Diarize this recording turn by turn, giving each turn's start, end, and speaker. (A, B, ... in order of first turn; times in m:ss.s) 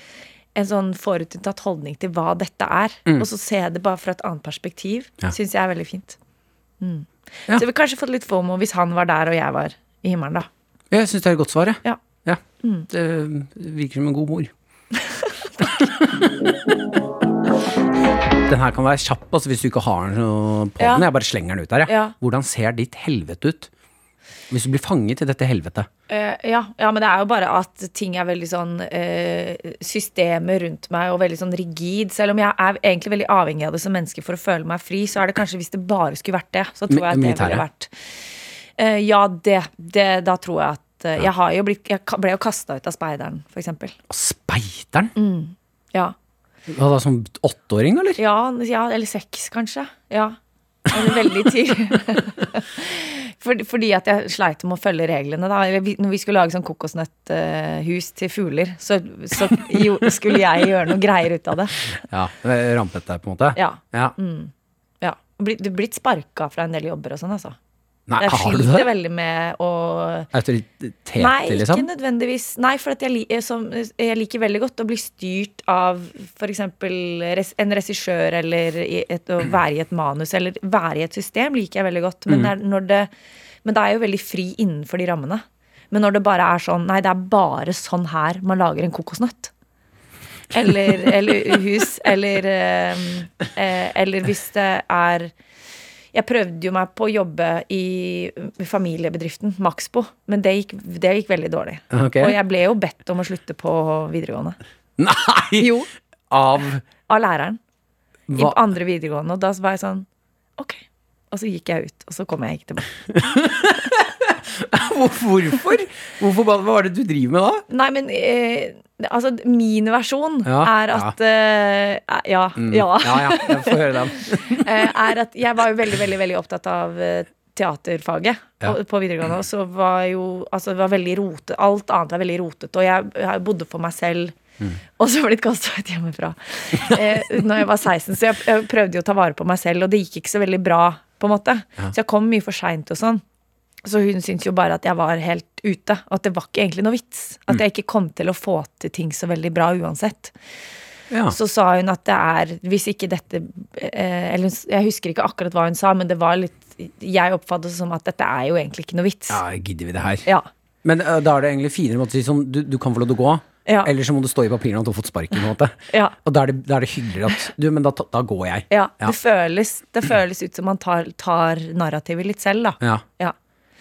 0:00.5-0:06.2 A
0:06.8-0:10.5 A
0:10.9-0:14.5 B
0:12.6-0:12.9 A
0:15.6-0:16.3 B
0:18.5-0:23.7 B
0:20.8-0:21.1 A
0:21.9-0:22.1 A
0:24.5-0:25.9 B
0:26.1-0:37.9 A
0:36.9-0:37.6 B
0:38.8-0:44.0 A
0:44.1-0:45.1 B
0:45.1-0:46.1 A
0:46.7-0:48.2 B
0:48.2-1:01.8 A
1:02.0-1:04.1 B
1:03.5-1:07.6 A
1:08.1-1:08.9 B
1:08.2-1:10.3 A
1:10.3-1:11.9 B
1:11.2-1:23.1 A
1:23.6-1:29.5 A
1:30.5-1:35.3 A
1:36.1-1:44.6 A
1:41.9-1:42.4 B
1:45.0-1:45.7 B
1:45.6-1:45.9 A
1:46.3-1:46.8 B
1:47.1-1:47.6 A
1:48.3-1:48.6 B
1:48.3-1:50.1 A
1:50.6-1:52.9 A
1:53.1-1:57.6 B
1:57.7-2:14.4 A
2:00.4-2:01.1 B
2:02.6-2:04.9 B
2:15.0-2:23.2 A
2:23.8-2:30.3 A
2:31.1-2:31.4 B
2:31.3-2:39.4 A
2:39.3-2:40.2 B
2:40.8-2:49.1 B
2:43.6-2:43.9 A
2:48.7-2:53.3 A